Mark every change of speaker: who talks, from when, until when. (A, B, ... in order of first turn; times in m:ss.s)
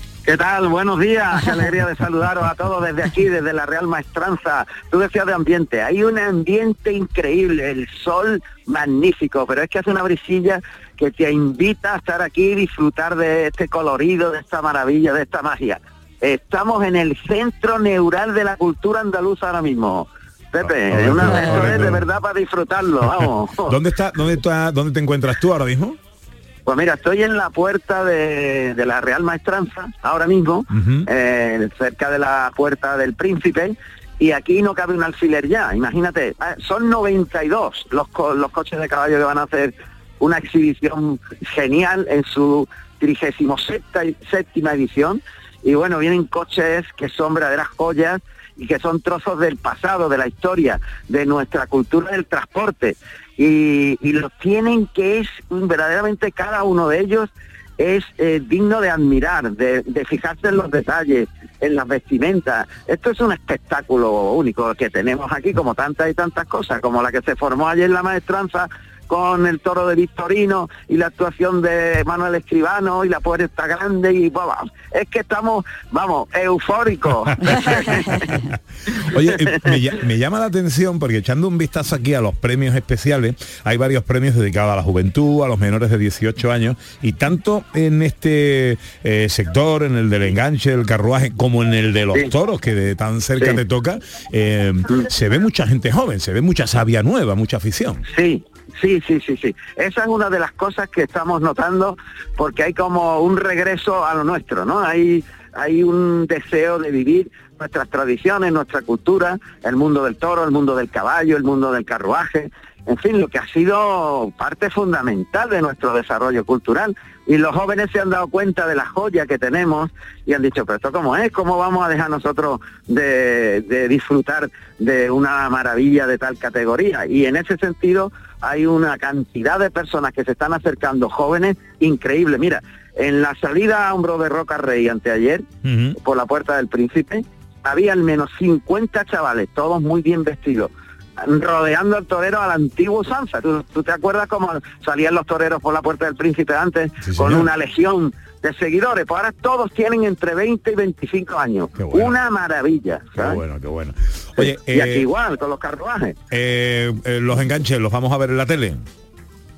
0:00.2-0:23.8 A
0:20.6-0:22.0 B
0:23.2-0:26.0 B
0:26.6-1:18.3 A
0:30.7-0:31.1 B
1:17.5-1:18.4 B
1:19.1-1:38.0 B
1:19.2-1:19.8 A
1:38.1-2:15.4 A
2:15.6-2:16.0 B
2:16.0-2:33.4 A
2:27.0-2:27.5 B
2:31.8-2:32.1 B
2:33.1-2:35.0 B
2:34.4-2:36.2 A
2:36.3-2:38.8 B